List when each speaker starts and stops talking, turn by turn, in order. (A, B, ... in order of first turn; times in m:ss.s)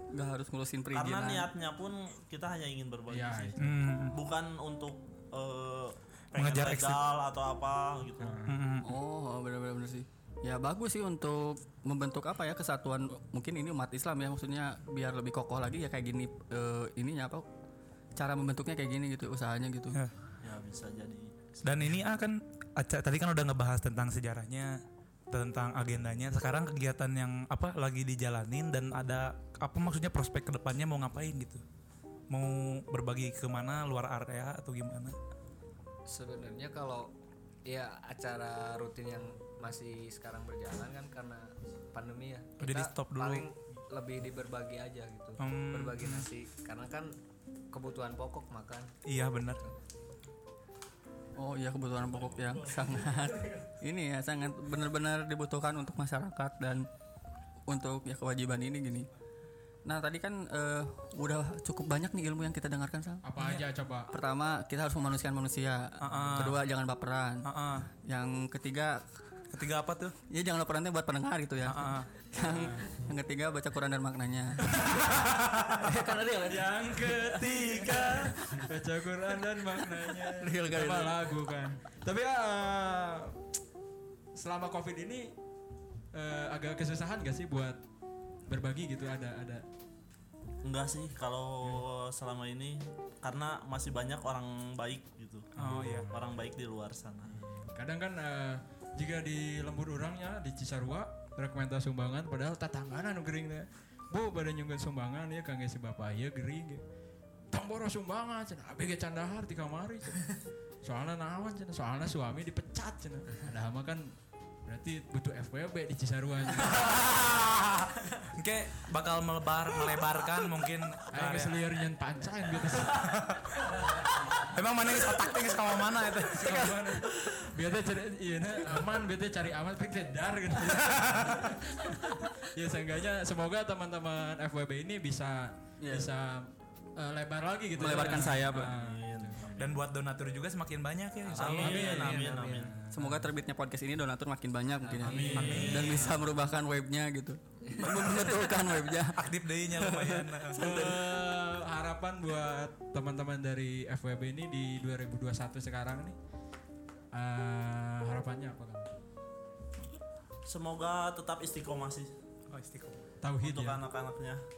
0:00.1-0:01.5 A
0:00.9-0:08.4 B
0:03.1-0:03.6 C
0:03.6-0:04.1 D
0:06.3-0:07.0 D
0:08.2-0:08.6 C
0:08.4-0:08.9 D
0:08.8-0:17.4 A
0:18.2-0:20.0 A
0:20.4-0:22.0 B
0:21.6-0:31.6 D
0:32.3-0:35.2 D
0:36.1-0:37.1 E
0:37.6-0:47.1 E
0:42.6-0:43.4 D
0:45.4-0:46.2 D
0:47.7-0:48.9 E
0:49.0-0:49.6 D
0:51.4-0:56.9 A
0:57.7-0:59.1 A
0:59.8-1:03.2 A
1:03.2-1:04.1 C
1:04.1-1:07.4 A
1:06.0-1:06.6 D
1:07.4-1:07.9 D
1:08.0-1:09.0 A
1:09.5-1:10.1 D
1:10.3-1:15.2 A
1:11.6-1:12.1 D
1:12.4-1:13.0 C
1:14.7-1:15.1 C
1:15.8-1:17.3 A
1:16.0-1:23.4 C
1:17.4-1:18.4 D
1:20.4-1:21.2 A
1:24.3-1:25.3 C
1:26.1-1:27.8 C
1:28.4-1:29.6 C
1:30.6-1:37.4 B
1:35.6-1:36.1 D
1:35.6-1:36.4 C
1:37.3-1:46.8 C
1:47.5-1:57.1 C
1:56.7-2:01.6 D
2:01.1-2:03.3 C
2:02.9-2:03.4 D
2:04.4-2:06.7 D
2:06.3-2:19.4 C
2:10.8-2:11.4 D
2:15.8-2:16.1 A
2:17.8-2:18.7 A
2:17.8-2:19.7 B
2:19.6-2:22.4 D
2:21.3-2:22.7 B
2:21.4-2:22.7 E
2:21.6-2:23.3 C
2:22.9-2:31.0 A
2:24.8-2:25.7 E
2:25.0-2:26.1 C
2:25.3-2:26.1 D
2:25.4-2:26.2 B
2:27.9-2:28.3 D
2:29.1-2:30.6 D
2:30.6-2:36.2 C
2:37.1-2:39.0 C
2:40.4-2:42.1 B
2:42.5-2:43.0 D
2:43.2-2:43.8 C
2:43.4-2:44.5 B